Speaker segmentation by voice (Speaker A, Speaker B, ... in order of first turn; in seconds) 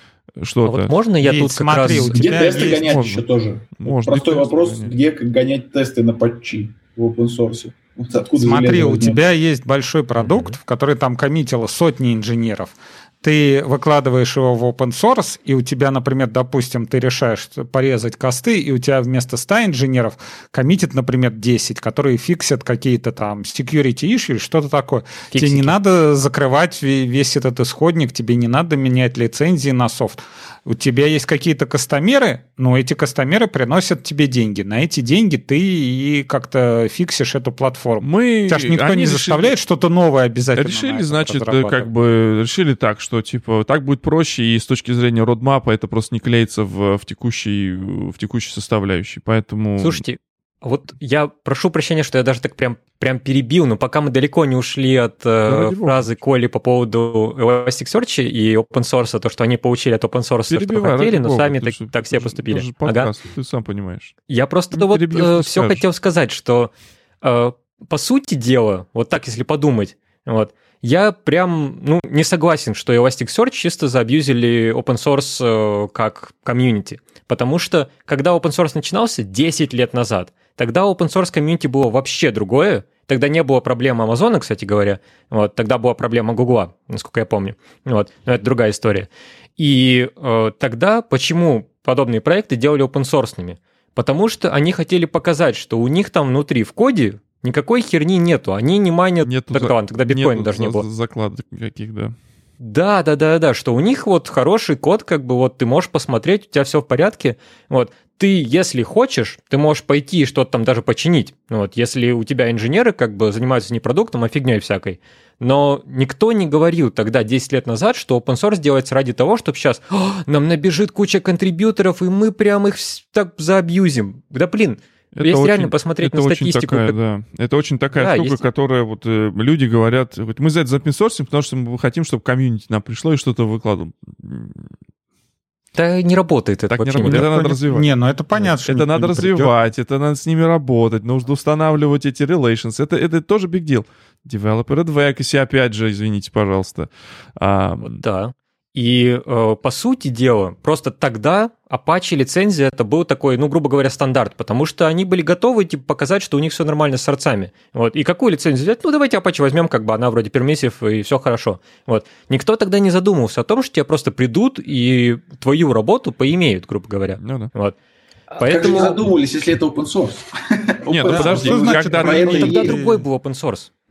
Speaker A: 0.4-0.9, 1.8-3.2, 3.8-4.9, 38.0-39.6, 40.5-50.0, 55.5-56.1, 60.5-64.2, 64.7-65.8, 99.2-102.2, 125.2-134.7, 136.7-148.0, 167.2-167.5, 170.9-172.4
Speaker B: 0.6-2.5, 10.2-10.6, 25.3-25.8, 49.8-63.1, 64.3-100.9, 102.6-127.0, 128.0-128.4, 135.8-137.3, 147.8-167.8, 168.4-169.0, 172.0-173.7
Speaker C: 1.2-3.1, 8.4-41.9, 137.0-139.5, 171.1-173.1
Speaker D: 2.1-9.2, 168.4-172.8